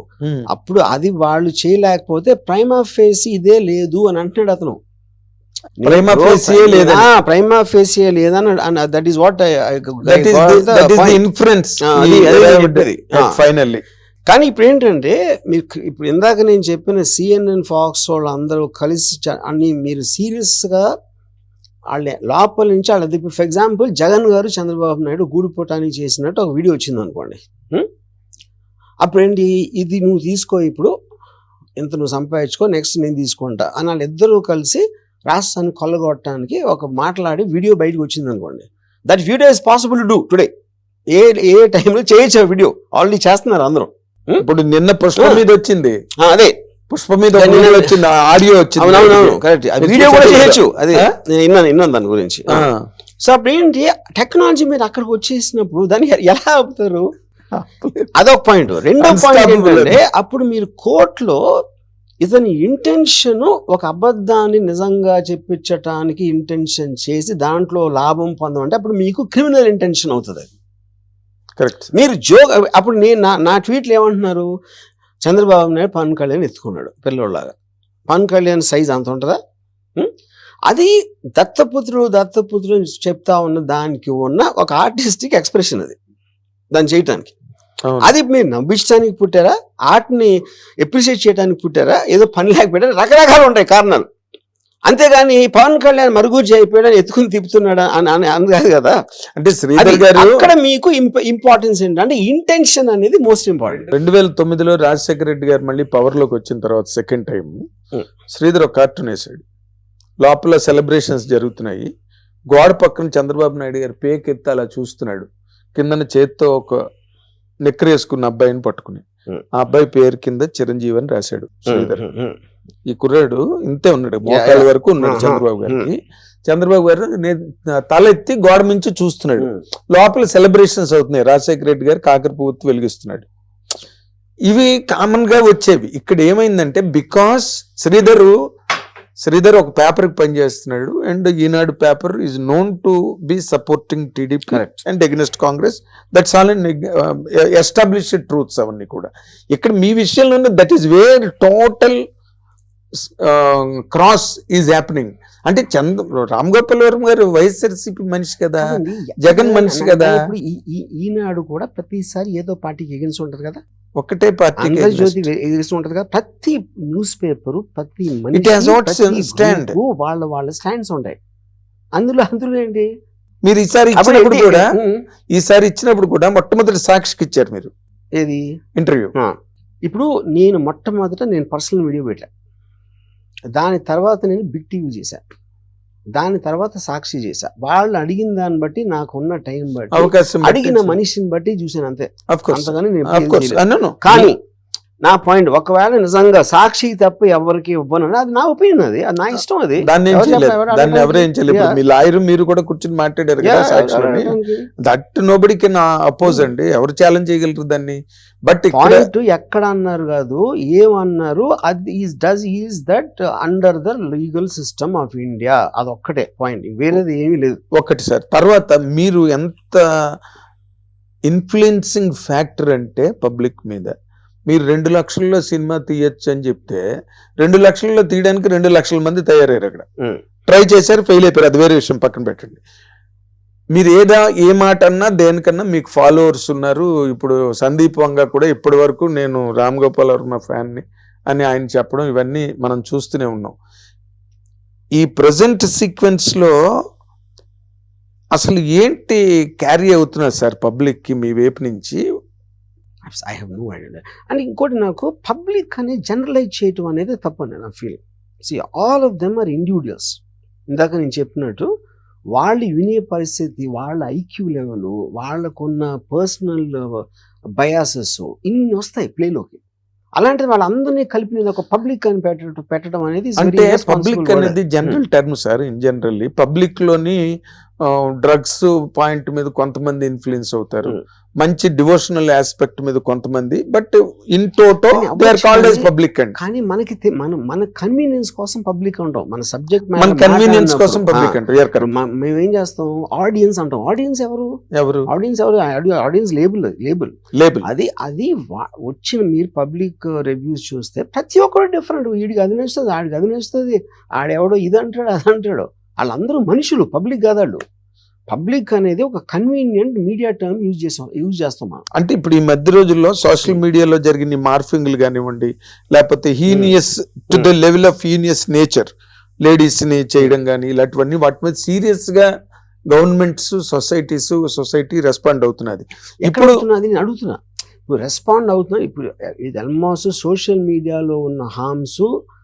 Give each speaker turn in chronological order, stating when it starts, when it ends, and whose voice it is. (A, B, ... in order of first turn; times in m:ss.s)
0:00.5-0:04.8 A
0:05.8-0:11.2 A
0:05.8-0:07.1 B
0:10.1-0:13.8 B
0:11.8-0:13.4 A
0:14.3-0:20.9 A
0:21.9-0:27.9 A
0:29.0-0:30.9 A
0:31.8-0:40.5 A
0:41.1-0:44.4 A
0:44.4-0:46.0 B
0:46.2-0:46.6 A
0:46.9-0:51.1 B
0:47.3-0:48.0 A
0:48.8-0:52.6 A
0:52.5-0:52.9 B
0:53.2-0:57.1 A
0:57.6-0:58.1 B
0:58.2-1:01.4 A
0:59.0-1:00.0 B
1:02.2-1:10.5 A
1:11.6-1:11.9 B
1:11.9-1:14.5 A
1:15.2-1:17.5 A
1:18.1-1:19.4 A
1:20.7-1:26.0 A
1:26.7-1:27.3 A
1:27.9-1:28.1 B
1:28.0-1:34.1 A
1:34.9-1:39.0 A
1:39.4-1:40.5 B
1:39.8-1:43.9 A
1:43.9-1:47.6 B
1:48.3-1:49.4 B
1:50.2-1:51.9 B
1:52.5-1:56.8 B
1:57.6-1:59.0 B
1:59.6-2:02.0 B
2:01.7-2:02.4 A
2:02.9-2:13.2 B
2:04.3-2:05.9 A
2:14.5-2:18.3 B
2:19.2-2:32.0 B
2:24.5-2:24.8 A
2:33.1-2:40.1 B
2:38.6-2:43.6 A
2:44.0-2:45.3 B
2:44.6-2:51.2 A
2:48.3-2:49.8 B
2:52.0-2:52.9 A
2:53.4-2:54.6 B
2:54.0-2:55.0 A
2:55.3-2:57.7 B
2:58.2-2:58.4 A
2:58.8-2:59.1 B
2:59.8-3:02.3 A
3:03.6-3:05.2 A
3:06.2-3:14.4 A
3:10.0-3:11.0 B
3:12.3-3:14.3 B
3:15.0-3:21.8 A
3:19.8-3:24.3 B
3:23.4-3:24.7 A
3:24.8-3:29.1 B
3:28.7-3:37.6 A
3:37.7-3:39.8 B
3:41.3-3:43.9 B
3:44.5-3:46.8 B
3:47.4-3:49.9 B
3:50.5-3:52.6 B
3:53.7-4:03.6 B
4:05.0-4:06.5 B
4:08.4-4:12.0 B
4:13.0-4:20.2 A
4:20.7-4:21.7 A
4:22.4-4:26.9 A
4:27.6-4:29.6 A
4:30.2-4:35.0 A
4:33.4-4:37.2 B
4:37.9-4:46.4 B
4:44.9-4:54.5 A
4:50.0-4:51.9 B
4:54.8-4:55.1 B
4:55.1-5:07.6 A
4:57.4-4:57.7 B
5:08.3-5:11.8 A
5:12.0-5:18.9 B
5:16.5-5:16.8 A
5:19.4-5:22.3 B
5:22.9-5:26.6 B
5:26.2-5:32.1 A